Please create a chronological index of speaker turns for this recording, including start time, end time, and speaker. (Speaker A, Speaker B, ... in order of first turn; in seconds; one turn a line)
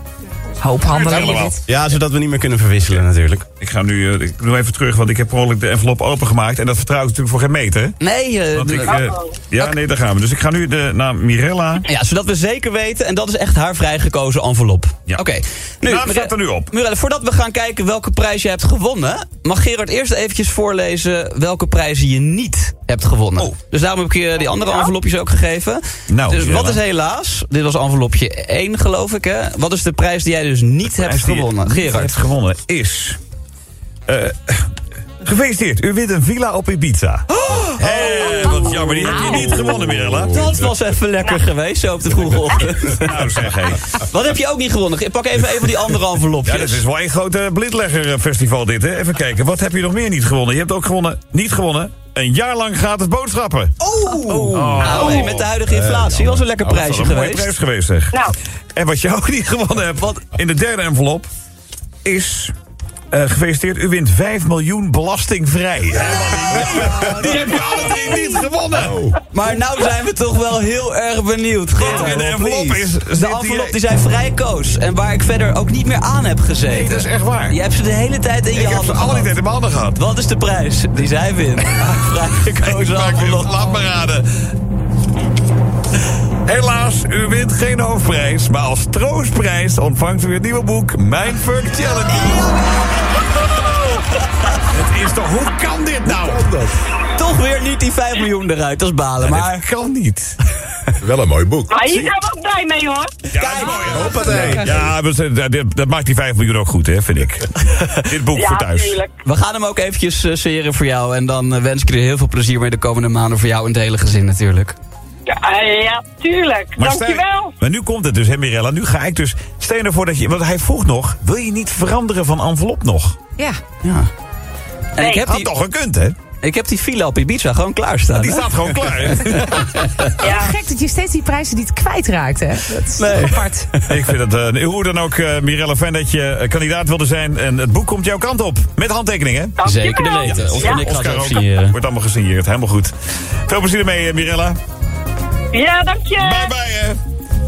Speaker A: 0.6-1.6
Speaker B: 0.8-1.6
Speaker C: 1.7-3.5
Speaker B: 3.6-7.9
Speaker D: 8.0-9.8
Speaker B: 8.5-11.9
Speaker E: 8.9-9.3
Speaker D: 11.8-32.2
Speaker B: 15.8-16.7
Speaker B: 26.1-26.8
Speaker B: 30.9-33.2
Speaker B: 34.1-40.5
Speaker D: 37.3-38.6
Speaker A: 38.2-39.7
Speaker D: 39.1-39.4
Speaker F: 39.8-40.7
Speaker D: 40.3-46.8
Speaker B: 43.0-43.9
Speaker B: 46.4-53.9
Speaker C: 53.8-55.0
Speaker D: 54.1-57.5
Speaker B: 54.5-55.6
Speaker F: 55.7-56.4
Speaker B: 56.7-61.3
Speaker B: 62.0-62.5
Speaker B: 63.1-69.1
Speaker F: 68.8-69.1
Speaker D: 69.3-79.3
Speaker B: 71.8-73.8
Speaker B: 76.7-77.6
Speaker B: 78.5-80.0
Speaker D: 79.9-83.8
Speaker B: 81.8-84.5
Speaker B: 86.5-92.6
Speaker D: 91.7-93.6
Speaker B: 93.4-96.5
Speaker D: 94.1-94.7
Speaker F: 96.2-96.7
Speaker D: 97.1-99.7
Speaker B: 99.2-100.3
Speaker F: 101.0-101.8
Speaker E: 101.7-103.1
Speaker D: 103.3-104.6
Speaker B: 103.3-109.0
Speaker C: 103.9-104.9
Speaker F: 103.9-104.9
Speaker A: 104.1-104.5
Speaker D: 107.7-108.0
Speaker E: 108.3-109.1
Speaker D: 109.2-114.8
Speaker E: 115.3-117.5
Speaker B: 116.8-123.2
Speaker D: 123.8-124.1
Speaker D: 125.0-125.5
Speaker E: 125.0-125.2
Speaker B: 125.1-126.2
Speaker D: 126.3-130.2
Speaker B: 128.1-129.9
Speaker E: 130.2-130.6
Speaker A: 130.2-133.6
Speaker D: 132.7-134.1
Speaker B: 133.8-139.7
Speaker E: 139.6-140.8
Speaker D: 139.6-141.8
Speaker B: 140.2-142.9
Speaker B: 143.5-144.6
Speaker E: 145.5-146.5
Speaker B: 146.2-147.0